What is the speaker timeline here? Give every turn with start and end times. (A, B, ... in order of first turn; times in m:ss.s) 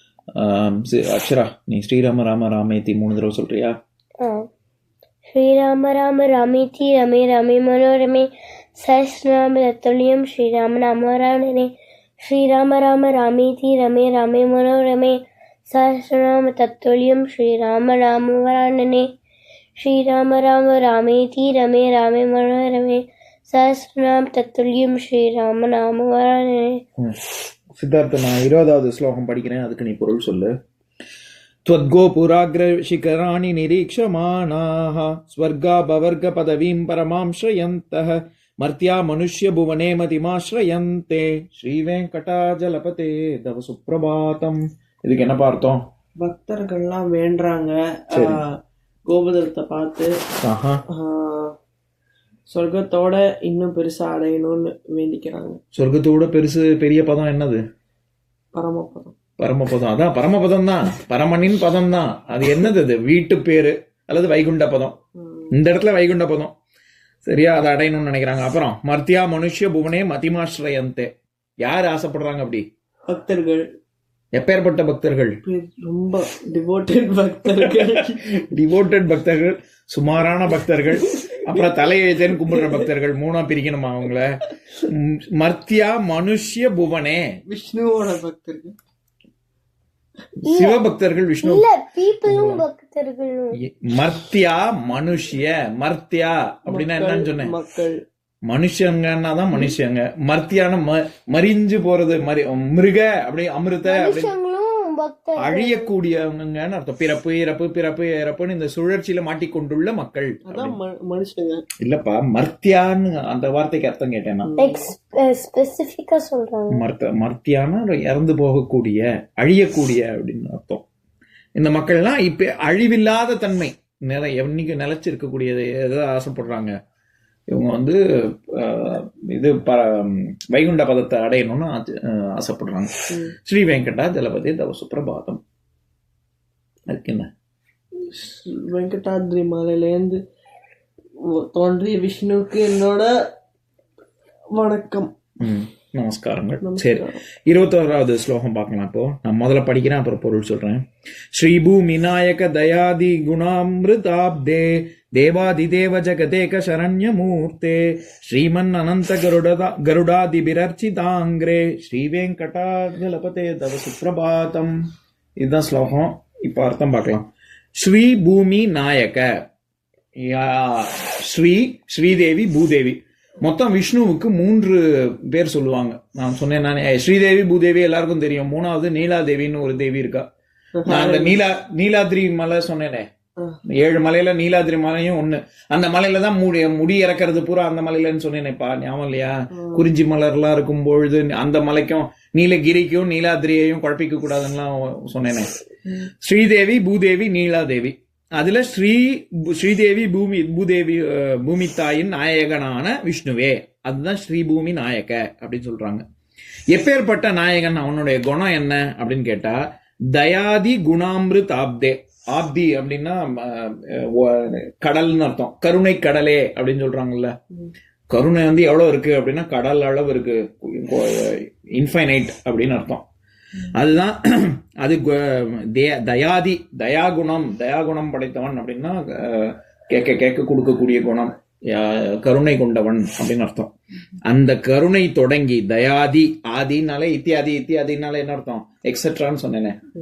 0:00.4-0:03.7 A
0:04.2-0:04.5 B
0:05.3-0:11.7 B
0:12.2-0:19.1 B
0:19.8-0:26.8 B
0:27.7-0:30.5 A
0:31.6-0:45.8 A
0:46.2-0:48.5 C
0:48.1-0:48.4 A
0:49.1-0:50.1 C
0:50.4-0:50.8 A
0:50.9-0:51.5 C
0:52.5-0:55.6 C
0:55.8-0:57.6 A
0:58.5-0:59.1 C
0:59.4-1:04.9 A
1:05.2-1:05.5 C
1:05.5-1:06.5 A
1:07.2-1:11.1 A
1:11.6-1:12.6 A
1:13.1-1:13.6 C
1:14.4-1:15.3 A
1:15.4-1:18.3 C
1:17.8-1:24.3 A
1:21.0-1:21.7 C
1:22.3-1:22.9 C
1:24.8-1:27.2 A
1:27.5-1:28.7 C
1:30.4-1:30.8 B
1:30.4-1:31.6 A
1:31.4-1:33.6 B
1:32.2-1:32.6 A
1:33.6-1:37.5 A
1:36.7-1:38.0 C
1:38.5-1:44.3 A
1:43.8-1:45.9 B
1:45.4-1:50.8 A
1:50.5-1:51.6 C
1:51.8-1:54.5 A
1:54.4-1:54.9 C
1:54.6-1:56.8 B
1:56.7-2:00.8 A
2:01.6-2:06.7 A
2:07.5-2:08.0 A
2:08.5-2:12.9 A
2:13.4-2:15.4 A
2:16.9-2:17.3 A
2:18.0-2:20.2 C
2:21.2-2:23.1 C
2:24.5-2:25.1 C
2:25.4-2:30.8 A
2:26.6-2:27.2 C
2:31.3-2:44.7 A
2:45.4-2:47.2 A
2:47.8-2:49.3 A
2:50.2-3:00.2 A
3:00.8-3:01.4 C
3:00.9-3:03.0 A
3:03.7-3:15.5 A
3:09.5-3:09.9 C
3:16.2-3:26.0 A
3:26.7-3:29.6 A
3:30.1-3:37.3 A
3:38.1-3:43.0 A
3:43.7-3:53.7 A
3:54.2-3:59.7 A